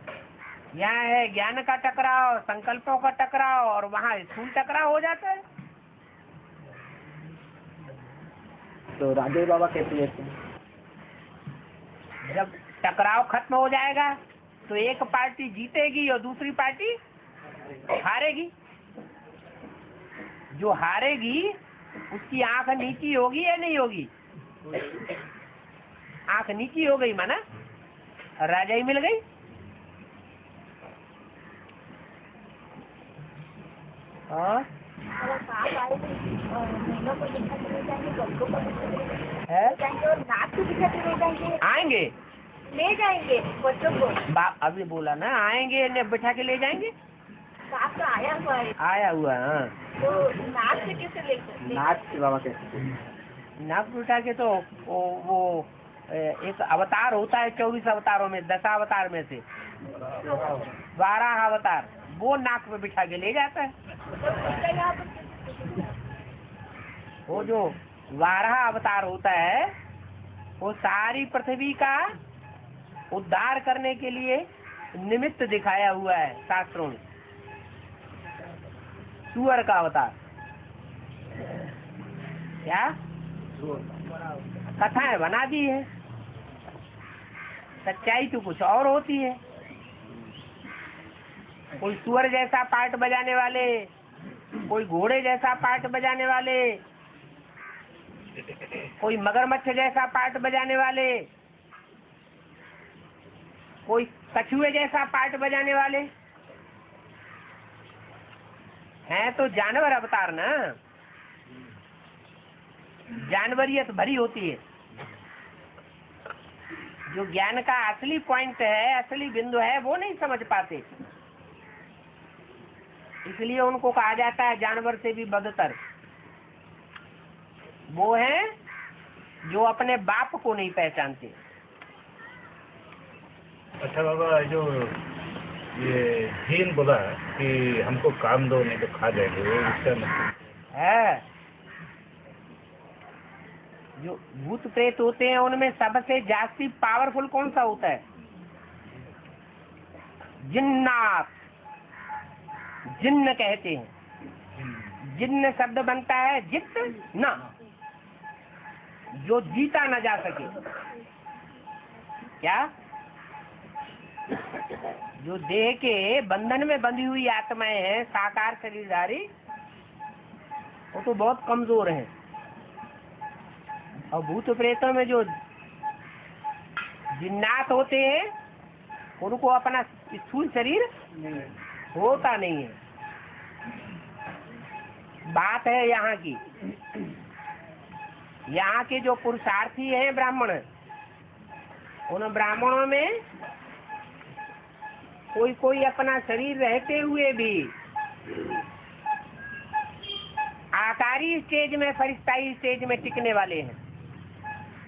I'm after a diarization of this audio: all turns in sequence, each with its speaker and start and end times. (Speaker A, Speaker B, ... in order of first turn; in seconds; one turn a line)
Speaker A: 0.7-5.4
Speaker B: 9.0-10.3
Speaker A: 12.3-14.2
Speaker A: 14.7-17.0
Speaker A: 17.9-18.5
Speaker A: 20.5-21.6
Speaker A: 22.1-24.1
Speaker A: 26.3-27.4
Speaker A: 28.4-29.2
Speaker A: 34.3-34.6
Speaker C: 35.2-41.6
Speaker A: 39.5-39.8
Speaker A: 41.6-42.1
Speaker C: 42.7-44.2
Speaker A: 44.3-46.9
Speaker C: 47.7-48.8
Speaker A: 48.8-49.7
Speaker C: 50.0-51.9
Speaker B: 51.6-52.9
Speaker A: 53.6-59.4
Speaker B: 60.3-60.6
Speaker A: 61.0-63.7
Speaker C: 64.2-65.9
Speaker A: 67.3-69.7
Speaker A: 70.6-72.1
Speaker A: 73.1-77.0
Speaker A: 79.3-80.1
Speaker A: 82.6-82.9
Speaker A: 84.8-85.9
Speaker A: 87.8-89.4
Speaker A: 91.8-93.9
Speaker A: 94.7-96.8
Speaker A: 99.0-101.3
Speaker A: 103.8-106.1
Speaker A: 109.1-110.8
Speaker A: 113.1-114.6
Speaker A: 117.1-120.8
Speaker A: 123.2-125.8
Speaker A: 127.9-128.5
Speaker A: 129.4-131.3
Speaker D: 133.8-135.0
Speaker D: 135.7-140.4
Speaker A: 140.7-141.2
Speaker A: 144.0-148.0
Speaker A: 150.4-151.3
Speaker A: 152.9-153.9
Speaker A: 155.0-157.4
Speaker A: 159.2-160.5
Speaker A: 162.4-162.7
Speaker A: 165.2-169.3
Speaker A: 170.9-172.1
Speaker A: 174.1-175.3
Speaker A: 177.1-178.3
Speaker A: 179.2-180.9
Speaker A: 181.9-182.8
Speaker A: 185.3-186.4
Speaker A: 188.5-190.6
Speaker A: 192.1-193.2
Speaker A: 195.3-197.7
Speaker A: 200.7-203.8